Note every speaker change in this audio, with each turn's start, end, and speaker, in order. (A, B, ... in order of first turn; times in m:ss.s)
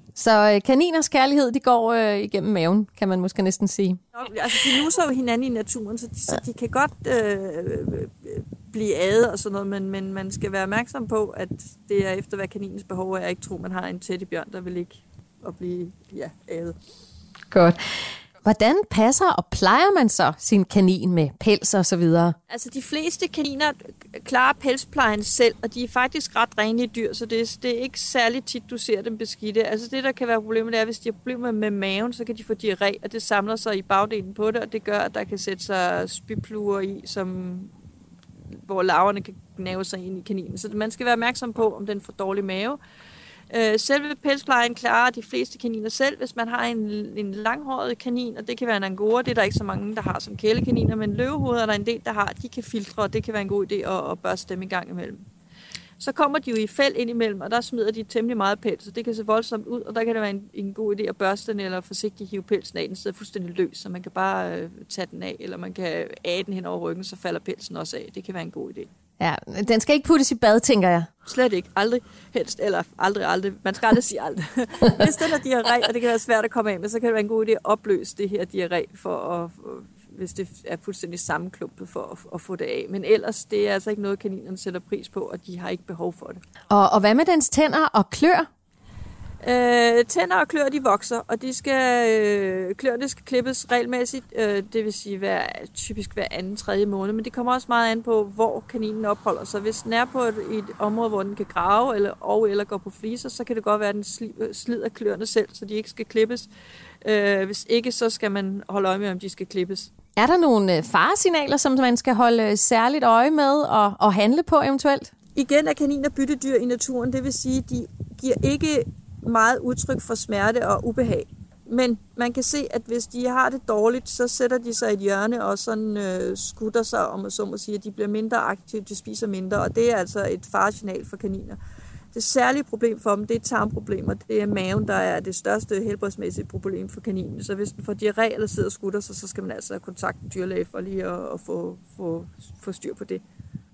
0:00.2-0:04.0 A
0:04.2-0:16.8 B
0:17.5-0:17.8 A
0:18.4-0:22.4 A
0:22.5-0:37.7 B
0:38.5-0:42.8 B
0:43.5-0:55.2 B
0:56.0-1:08.9 B
1:09.2-1:11.1 A
1:11.2-1:26.4 B
1:26.7-1:28.5 A
1:29.4-1:46.5 B
1:47.0-1:49.9 B
1:50.2-1:55.1 A
1:55.4-2:11.6 B
2:12.1-2:23.2 B